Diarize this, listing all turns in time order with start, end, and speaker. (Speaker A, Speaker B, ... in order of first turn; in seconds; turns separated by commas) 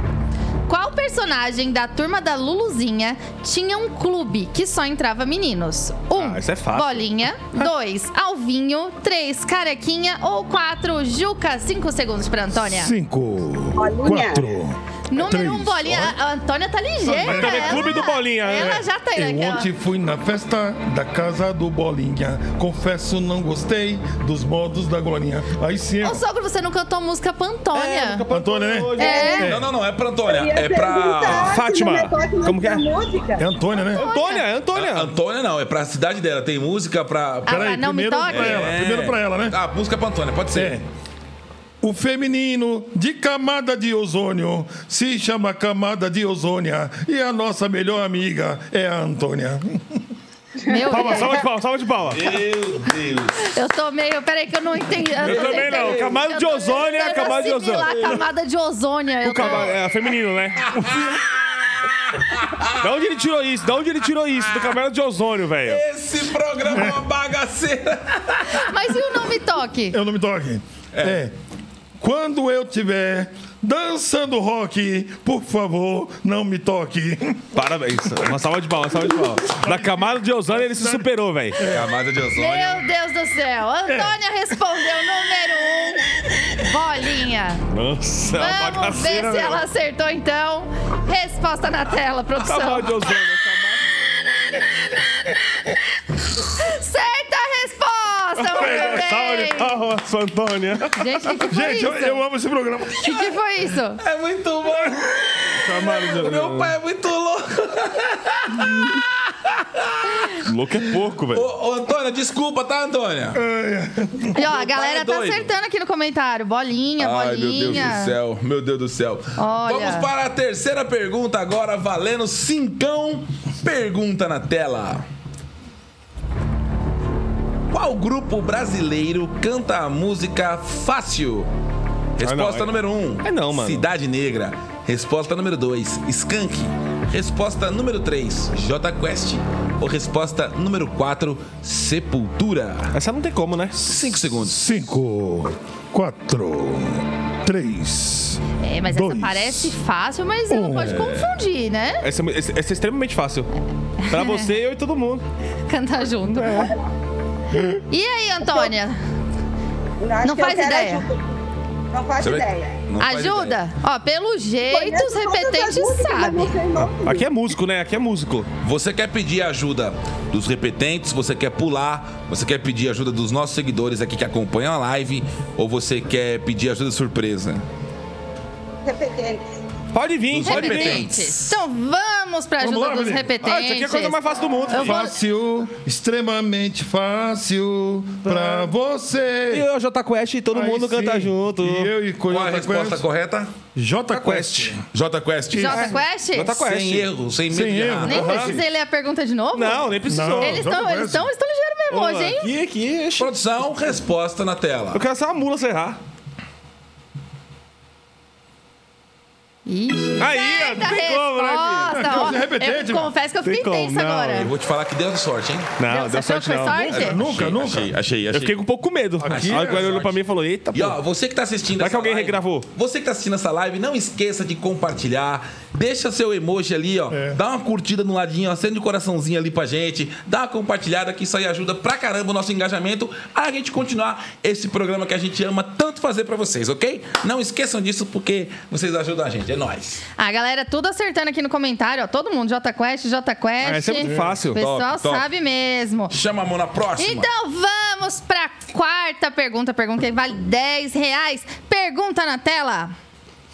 Speaker A: 0.7-12.9, Speaker B: 6.1-7.0, Speaker C: 12.5-16.2, Speaker D: 13.8-14.4, Speaker A: 15.1-19.7, Speaker C: 17.0-26.2, Speaker B: 17.1-18.8, Speaker A: 26.0-28.2, Speaker B: 27.7-29.4, Speaker C: 28.3-29.7, Speaker A: 29.0-29.5, Speaker D: 29.0-29.5, Speaker E: 29.4-31.6, Speaker D: 30.2-33.4, Speaker B: 31.3-32.9, Speaker C: 33.4-34.1, Speaker A: 33.9-34.5, Speaker B: 34.0-35.1, Speaker E: 34.7-37.7, Speaker A: 37.5-38.7, Speaker C: 37.5-39.6, Speaker E: 38.2-40.8, Speaker C: 40.5-40.9, Speaker C: 41.8-50.0, Speaker A: 50.6-51.4, Speaker B: 50.8-52.2, Speaker E: 52.1-53.5, Speaker A: 53.4-59.7, Speaker B: 55.2-58.2, Speaker E: 55.2-56.1, Speaker B: 59.2-60.7, Speaker E: 60.7-62.9, Speaker B: 62.8-65.8, Speaker E: 64.4-64.8, Speaker E: 65.6-68.7, Speaker C: 66.7-67.0, Speaker A: 68.5-70.0, Speaker C: 69.9-71.3, Speaker E: 70.9-71.2, Speaker C: 72.0-77.6, Speaker B: 77.5-81.6, Speaker C: 79.1-81.9, Speaker E: 81.6-82.8, Speaker A: 82.3-86.0, Speaker C: 83.9-84.1, Speaker A: 86.6-87.6, Speaker B: 87.7-89.4, Speaker A: 88.3-93.0, Speaker C: 89.1-89.6, Speaker B: 92.3-93.8, Speaker A: 96.6-99.7, Speaker B: 98.3-101.4, Speaker C: 98.6-99.0, Speaker A: 101.0-102.2, Speaker C: 101.5-103.0, Speaker A: 103.0-104.0, Speaker E: 104.0-110.4, Speaker B: 105.6-106.7, Speaker B: 110.4-111.4, Speaker E: 111.3-113.4, Speaker C: 113.3-114.3, Speaker A: 114.3-118.2, Speaker E: 114.3-115.5, Speaker E: 117.0-125.0, Speaker A: 119.4-120.1, Speaker E: 127.7-131.5, Speaker E: 132.2-142.9, Speaker B: 132.2-133.8, Speaker B: 142.9-143.9, Speaker E: 143.8-144.6, Speaker C: 144.4-149.8, Speaker A: 148.6-152.0, Speaker C: 150.5-151.1, Speaker B: 152.0-153.5, Speaker A: 154.0-154.5, Speaker B: 154.1-155.2, Speaker A: 155.7-156.7, Speaker B: 156.3-156.7, Speaker A: 157.9-159.0, Speaker D: 160.0-161.2, Speaker A: 160.2-161.0, Speaker D: 161.9-162.7, Speaker E: 162.2-163.6, Speaker A: 163.0-166.6, Speaker D: 164.7-167.3, Speaker B: 166.7-168.5, Speaker E: 168.6-177.6, Speaker D: 178.8-179.6, Speaker B: 179.9-181.1, Speaker E: 180.3-181.6, Speaker A: 180.4-184.2, Speaker C: 182.6-183.3, Speaker B: 183.4-185.0, Speaker A: 184.7-185.1, Speaker C: 184.7-189.7, Speaker B: 188.2-188.7, Speaker B: 189.5-191.9, Speaker C: 190.5-193.0, Speaker E: 192.3-193.5, Speaker C: 193.7-194.8, Speaker B: 194.1-194.8, Speaker E: 194.9-198.5, Speaker C: 195.6-195.8, Speaker A: 195.6-196.5, Speaker B: 195.7-197.1, Speaker C: 197.5-198.6, Speaker A: 198.1-202.5, Speaker B: 198.1-198.6, Speaker B: 199.5-200.6, Speaker C: 200.1-201.3, Speaker B: 201.9-203.3, Speaker E: 203.2-205.0, Speaker B: 204.9-206.0, Speaker A: 209.7-214.5, Speaker B: 210.2-212.2, Speaker C: 211.9-213.1, Speaker B: 213.4-214.5, Speaker E: 214.3-215.8, Speaker B: 215.8-216.9, Speaker A: 215.9-217.2, Speaker C: 216.7-217.9, Speaker E: 216.9-218.6, Speaker B: 218.3-221.0, Speaker C: 219.2-220.0, Speaker E: 219.3-220.2, Speaker E: 220.7-240.0, Speaker B: 221.8-222.7, Speaker C: 227.1-227.4, Speaker A: 240.2-246.1, Speaker B: 243.6-244.6, Speaker C: 244.1-244.4, Speaker E: 244.6-245.3, Speaker E: 246.1-247.3, Speaker A: 247.0-252.9